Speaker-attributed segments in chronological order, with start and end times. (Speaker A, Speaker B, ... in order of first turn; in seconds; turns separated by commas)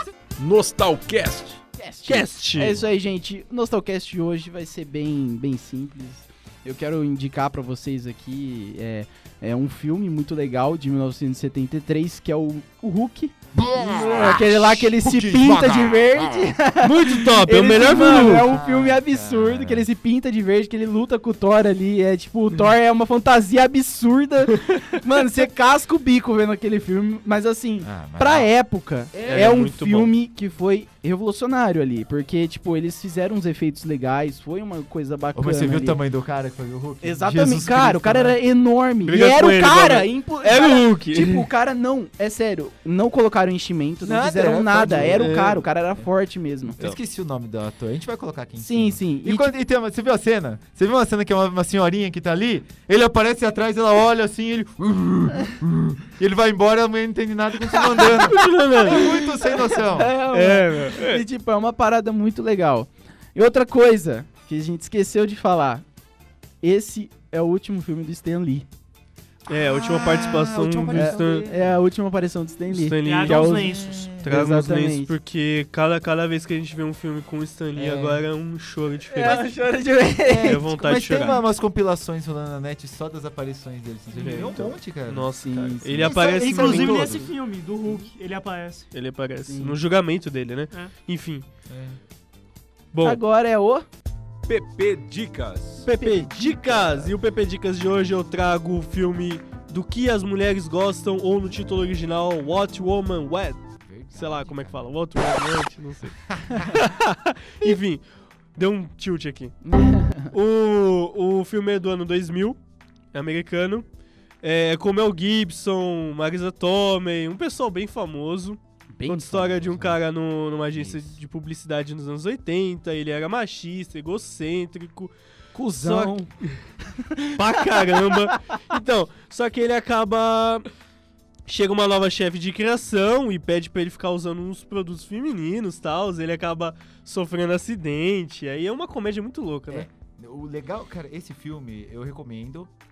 Speaker A: 0.4-1.6, Speaker B: 1.8-36.0, Speaker C: 2.1-2.8, Speaker D: 13.7-15.7, Speaker A: 15.3-15.9, Speaker C: 16.8-18.5, Speaker D: 18.2-19.9, Speaker D: 27.8-28.5, Speaker D: 29.1-29.6, Speaker C: 29.3-30.1, Speaker D: 35.4-38.4, Speaker B: 37.0-46.8, Speaker C: 39.0-41.5, Speaker D: 44.0-45.4, Speaker C: 45.0-45.6, Speaker D: 46.8-60.1, Speaker B: 48.6-49.5, Speaker C: 58.0-59.1, Speaker B: 58.9-65.8, Speaker C: 60.3-61.2, Speaker B: 66.6-68.7, Speaker C: 69.5-71.5, Speaker D: 69.5-71.8, Speaker B: 70.9-73.7, Speaker C: 72.7-79.5, Speaker E: 73.0-74.2, Speaker D: 73.5-74.3, Speaker B: 74.2-75.1, Speaker D: 77.8-78.3, Speaker B: 79.1-80.6, Speaker D: 80.2-87.3, Speaker C: 80.5-81.4, Speaker C: 84.2-87.2, Speaker B: 85.3-86.1, Speaker E: 86.1-88.9, Speaker C: 88.9-91.5, Speaker B: 89.5-89.8, Speaker D: 91.7-92.0, Speaker C: 92.9-93.2, Speaker B: 93.0-93.9, Speaker A: 94.5-95.9, Speaker C: 95.8-103.6, Speaker B: 95.9-97.1, Speaker D: 103.8-104.9, Speaker C: 104.1-108.0, Speaker D: 106.3-106.8, Speaker C: 108.5-109.6, Speaker B: 109.7-110.3, Speaker C: 110.1-112.6, Speaker C: 113.1-113.8, Speaker C: 114.4-125.1, Speaker B: 118.9-120.0, Speaker D: 120.7-121.2, Speaker B: 125.5-126.3, Speaker C: 125.8-126.5, Speaker B: 127.0-127.8, Speaker C: 127.4-130.7, Speaker C: 131.5-139.9, Speaker D: 139.7-142.7